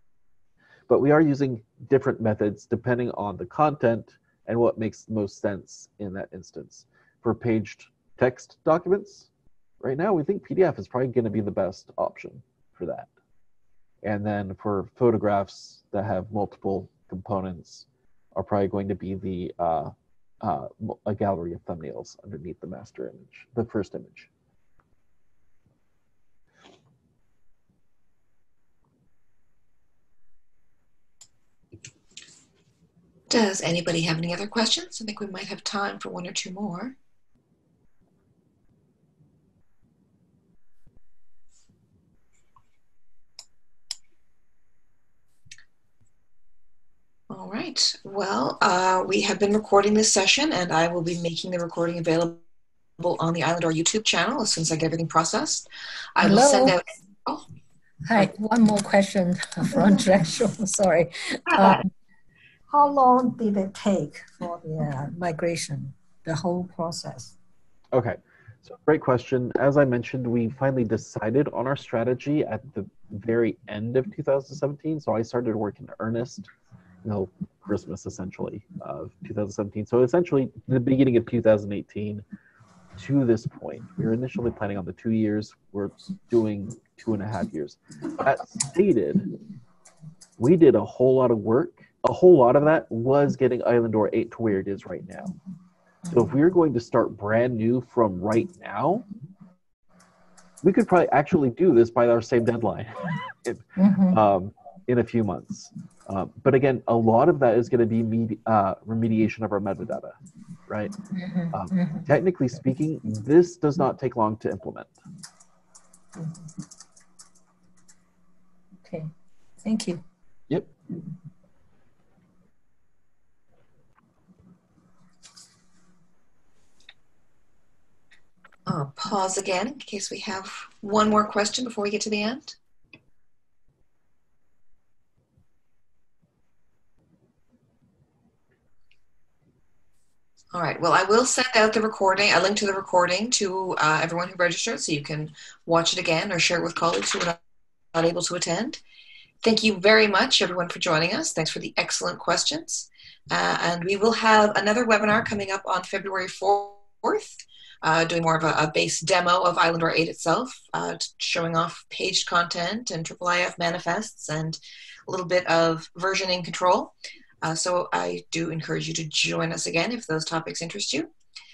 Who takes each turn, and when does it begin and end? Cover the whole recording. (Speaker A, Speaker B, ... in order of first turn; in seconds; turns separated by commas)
Speaker A: 0.9-9.3, Speaker A: 9.8-13.1, Speaker A: 14.0-24.3, Speaker B: 33.3-37.0, Speaker B: 47.3-52.4, Speaker B: 53.0-57.4, Speaker C: 56.2-56.8, Speaker C: 58.0-61.9, Speaker B: 61.5-61.8, Speaker C: 62.7-67.3, Speaker A: 67.9-76.5, Speaker A: 77.0-82.2, Speaker A: 83.0-89.3, Speaker A: 90.4-95.3, Speaker A: 96.1-99.0, Speaker A: 100.6-110.2, Speaker C: 103.8-104.2, Speaker A: 110.7-110.9, Speaker C: 111.1-112.1, Speaker A: 111.5-114.9, Speaker C: 118.8-119.1, Speaker C: 119.6-120.0, Speaker B: 128.7-132.6, Speaker B: 140.5-147.4, Speaker B: 147.9-148.8, Speaker B: 149.4-171.1